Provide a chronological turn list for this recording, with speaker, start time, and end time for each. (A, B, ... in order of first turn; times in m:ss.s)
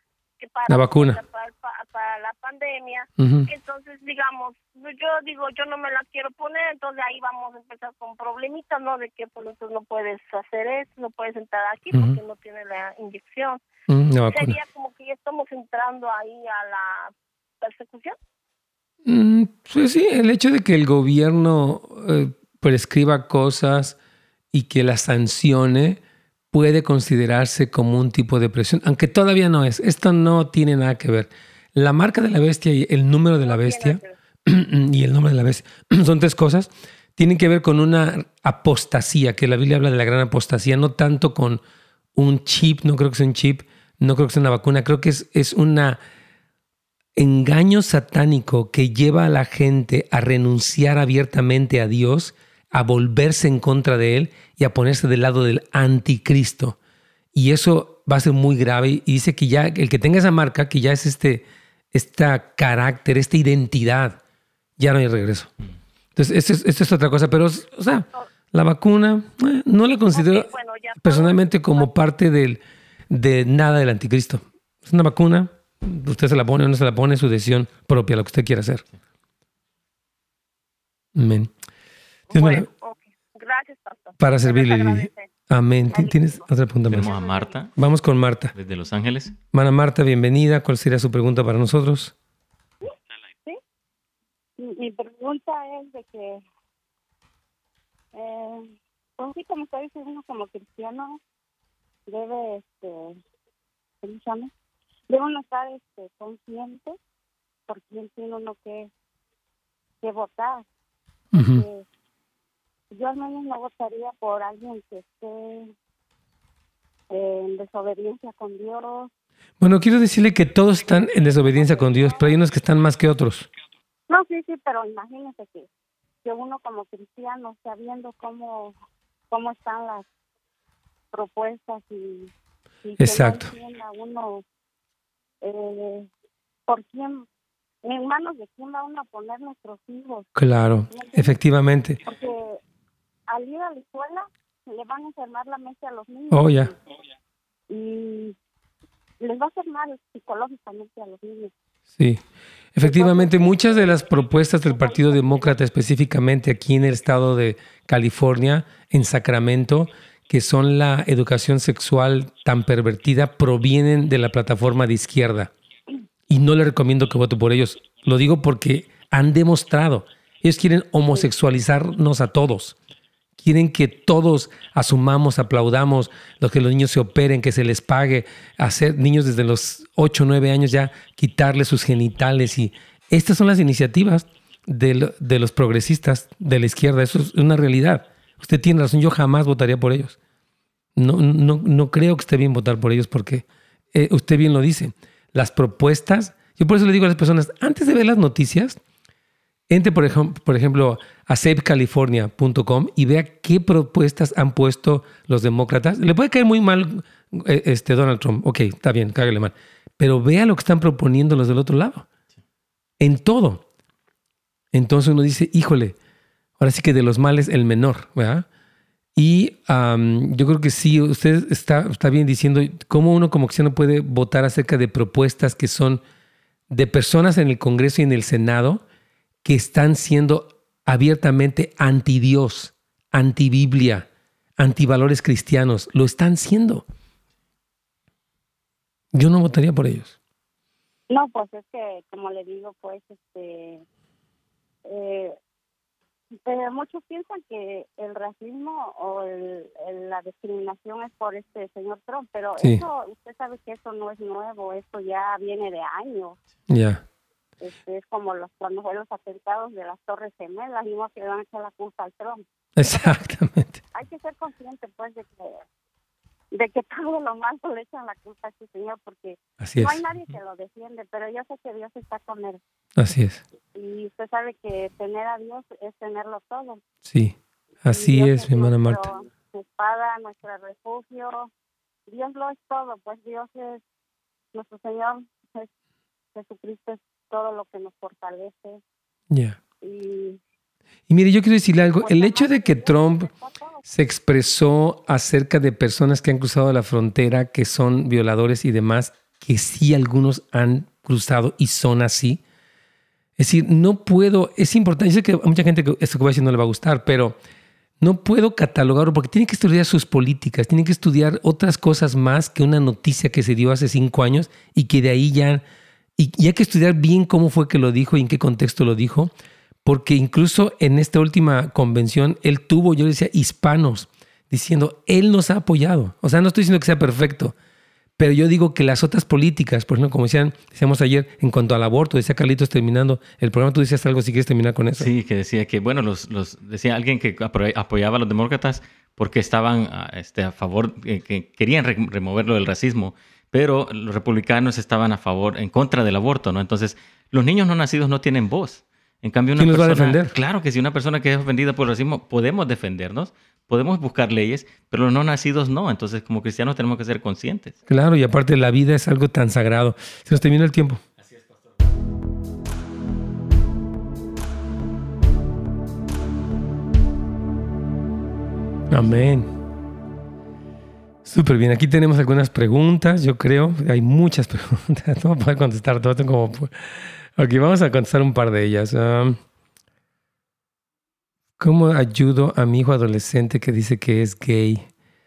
0:00.4-0:13.6 A
0:00.7-0:01.2 B
0:03.2-0:03.5 B
0:11.9-0:12.2 B
0:13.9-0:14.6 B
0:14.3-0:18.2 A
0:19.0-0:24.0 B
0:24.5-0:26.0 B
0:26.5-0:41.6 B
0:33.4-0:34.1 A
0:42.2-0:46.0 B
0:47.2-0:56.8 B
0:57.3-1:04.2 B
1:04.8-1:05.5 B
1:06.2-1:10.5 B
1:10.1-1:11.9 A
1:11.0-1:18.8 B
1:21.2-1:21.5 B
1:22.3-1:25.3 A
1:22.3-1:22.7 B
1:24.2-1:27.1 B
1:25.9-1:26.5 A
1:26.9-1:27.7 C
1:27.0-1:27.6 A
1:27.8-1:28.5 B
1:28.6-1:29.4 C
1:29.5-1:32.1 B
1:34.6-1:36.4 D
1:38.1-1:41.2 D
1:42.1-1:43.2 D
1:44.0-1:44.5 D
1:45.1-1:47.0 D
1:47.7-1:48.9 D
1:50.0-1:50.7 D
1:51.3-1:51.9 D
1:51.4-1:51.6 B
1:52.9-1:55.7 D
1:57.1-1:59.1 D
1:59.6-2:03.5 B
2:01.5-2:02.2 D
2:04.1-2:05.7 D
2:06.2-2:08.8 D
2:09.3-2:10.1 D
2:11.1-2:12.3 D
2:12.8-2:14.4 D
2:13.0-2:13.5 B
2:15.4-2:16.1 D
2:16.7-2:17.3 D
2:17.8-2:20.3 D
2:20.4-2:22.0 B
2:20.9-2:21.4 D
2:22.0-2:22.6 D
2:23.3-2:26.8 D
2:26.3-2:26.7 B
2:27.7-2:28.4 D
2:29.2-2:31.5 D
2:32.0-2:32.2 B
2:32.8-2:45.5 B
2:32.8-2:34.0 D
2:34.7-2:35.5 D
2:46.3-2:52.8 B
2:53.4-3:10.2 B
3:11.0-3:18.8 B
3:19.7-3:32.1 B
3:33.0-3:33.6 B
3:34.7-3:36.0 B
3:36.6-3:38.5 B
3:39.2-3:46.0 B
3:46.7-3:48.8 B
3:49.4-3:54.1 B
3:54.6-3:56.8 B
3:59.1-4:00.2 B
4:01.1-4:03.8 D
4:04.8-4:05.4 D
4:06.4-4:16.4 D
4:16.7-4:17.0 B
4:17.6-4:23.2 D
4:22.8-4:23.8 B
4:23.9-4:25.6 D
4:26.5-4:32.6 D
4:29.6-4:30.0 B
4:33.0-4:33.4 B
4:33.8-4:36.8 D
4:37.0-4:39.0 B
4:37.9-4:41.5 D
4:42.1-4:43.8 D
4:44.5-4:45.7 D
4:46.4-4:48.8 D
4:49.3-4:49.6 B
4:49.8-4:50.4 D
4:51.1-4:53.3 B
4:52.0-4:53.8 D
4:53.9-5:02.4 B
5:03.4-5:07.4 B
5:08.0-5:15.6 B
5:16.2-5:19.3 B
5:19.8-5:27.6 B
5:28.2-5:35.1 B
5:35.0-5:57.8 C
5:49.6-5:50.3 B
5:57.9-6:01.0 B
6:08.9-6:09.5 B
6:11.2-6:19.4 B
6:21.6-6:24.9 B